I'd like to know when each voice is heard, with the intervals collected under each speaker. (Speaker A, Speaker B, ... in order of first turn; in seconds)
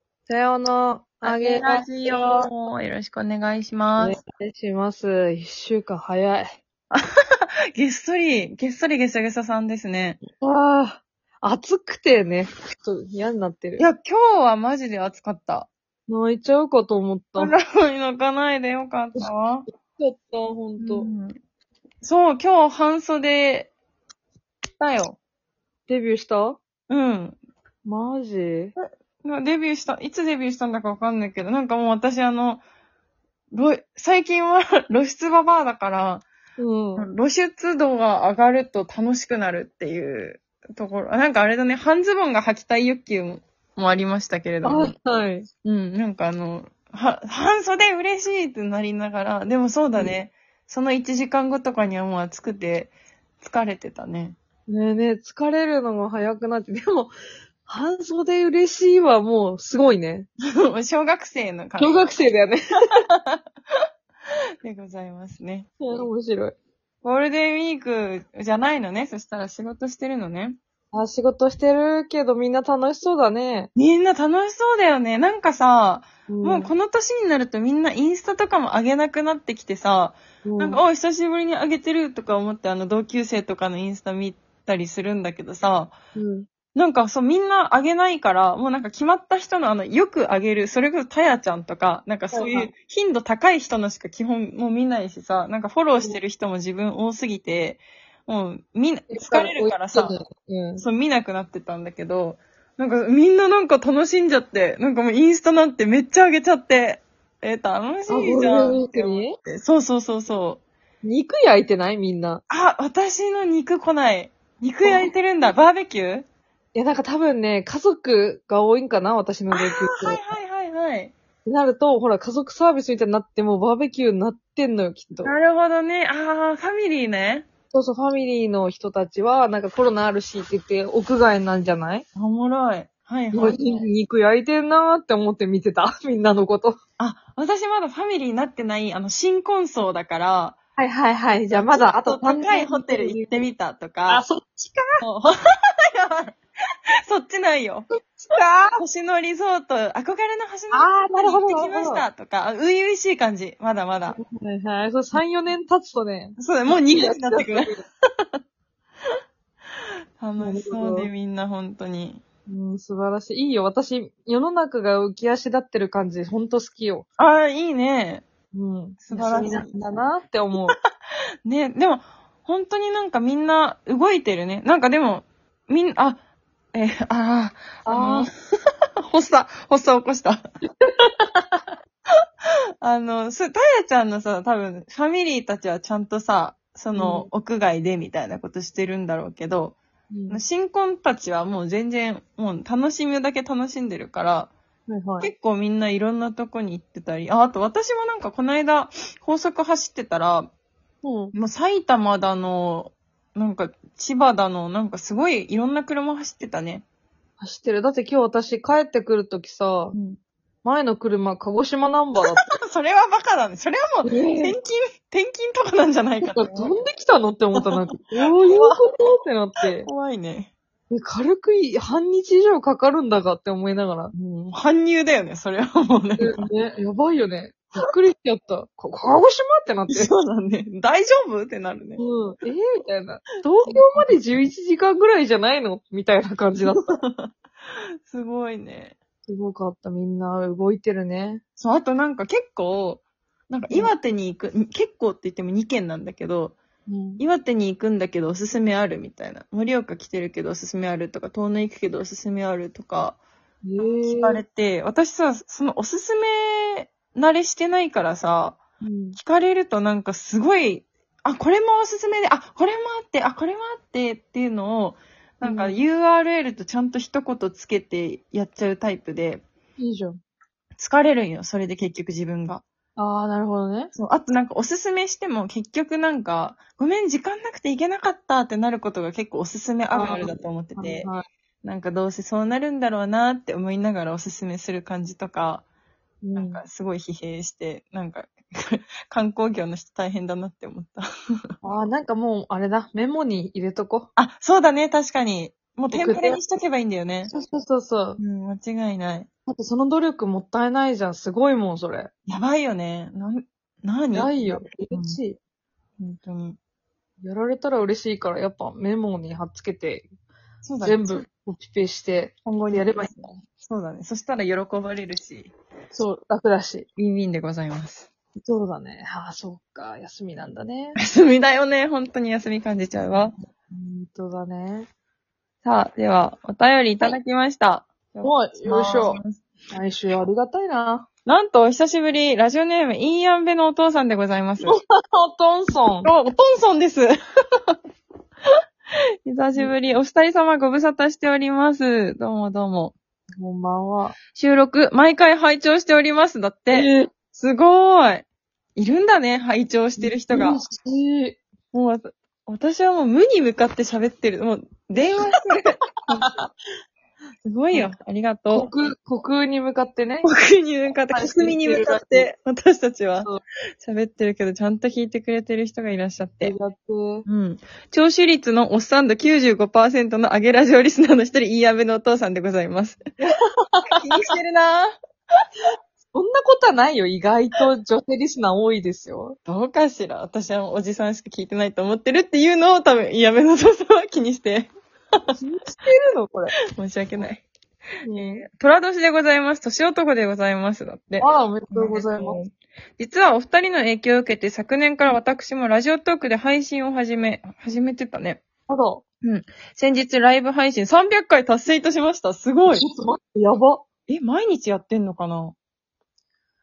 Speaker A: 0.2-2.4, 4.0-6.6, 10.2-13.9, 16.1-17.5, 19.9-21.1, 25.9-26.6, 27.8-28.7, 36.6-37.1, 44.6-45.5, 54.7-57.1, 57.6-60.3, 61.8-62.6, 65.8-66.5, 70.9-73.7, 76.3-76.7, 80.4-80.8, 86.1-86.5, 92.3-92.7, 99.1-100.8, 108.1-109.4, 111.0-112.4, 114.8-115.1, 116.7-120.3, 121.4-125.3, 127.7-132.0, 133.3-136.8, 140.8-143.4, 144.1-145.0, 148.2-148.8, 150.7-152.1, 154.1-157.8, 160.4-161.1, 162.5-167.1, 168.5-170.8, 177.8-178.3, 180.8-181.3, 186.9-187.3, 190.1-190.4, 194.9-195.3, 201.0-201.3, 207.4-210.0, 210.6-212.5, 214.0-214.6, 216.2-219.9, 220.9-224.1, 226.2-230.1, 232.0-236.8, 239.2-241.4, 246.9-247.2, 253.6-254.4, 258.8-259.2, 265.4-265.8, 269.8-270.2, 273.0-273.9, 279.9-281.2, 286.2-286.6, 291.6-294.1, 295.9-296.4, 297.2-298.2, 299.4-302.1, 304.1-305.4, 307.2-310.1, 310.8-313.5, 315.9-316.9, 318.4-321.0, 323.7-324.9, 328.2-329.2, 329.7-331.1, 334.6-336.1, 343.4-344.2, 346.7-347.2, 350.0-351.4, 354.9-355.4, 358.5-360.3, 361.1-362.3, 366.4-367.2, 373.2-374.2, 376.1-379.4, 385.4-386.5, 388.0-388.5, 391.2-392.4, 398.7-399.0, 402.7-403.9
Speaker B: 1.2-4.2, 7.7-10.2, 13.8-15.7, 17.4-19.6, 20.8-21.3, 22.0-23.7, 24.8-25.2, 26.9-27.4, 28.8-32.6, 33.5-36.3, 37.0-44.9, 45.6-54.4, 60.6-62.3, 63.0-63.4, 64.6-65.7, 67.0-70.6, 73.7-86.0, 86.7-100.2, 100.8-110.6, 112.5-116.2, 119.5-121.1, 125.2-127.5, 132.1-133.9, 137.0-140.6, 141.5-144.2, 145.0-146.4, 147.0-147.8, 148.8-154.2, 156.4-157.7, 160.2-162.2, 167.2-168.3, 169.0-169.7, 171.4-176.2, 176.7-178.3, 179.1-180.4, 182.8-189.8, 190.3-194.5, 195.2-200.5, 201.3-206.8, 209.9-210.2, 212.5-216.8, 218.4-219.1, 219.8-220.5, 224.1-226.5, 229.9-232.0, 233.7-234.1, 236.6-237.3, 238.1-239.0, 241.6-246.6, 247.2-253.2, 253.8-269.4, 270.8-272.6, 273.9-281.1, 281.6-285.6, 286.3-291.0, 294.2-297.3, 298.2-299.3, 302.3-305.2, 306.0-306.6, 310.6-311.3, 312.4-315.5, 317.0-318.1, 320.9-323.3, 325.6-329.4, 331.2-334.8, 336.0-337.8, 339.2-342.9, 344.3-350.6, 351.7-356.3, 357.4-358.7, 360.2-366.5, 367.2-373.1, 373.9-374.9, 379.4-384.7, 386.7-387.4, 388.1-398.4, 399.2-402.8, 404.1-405.6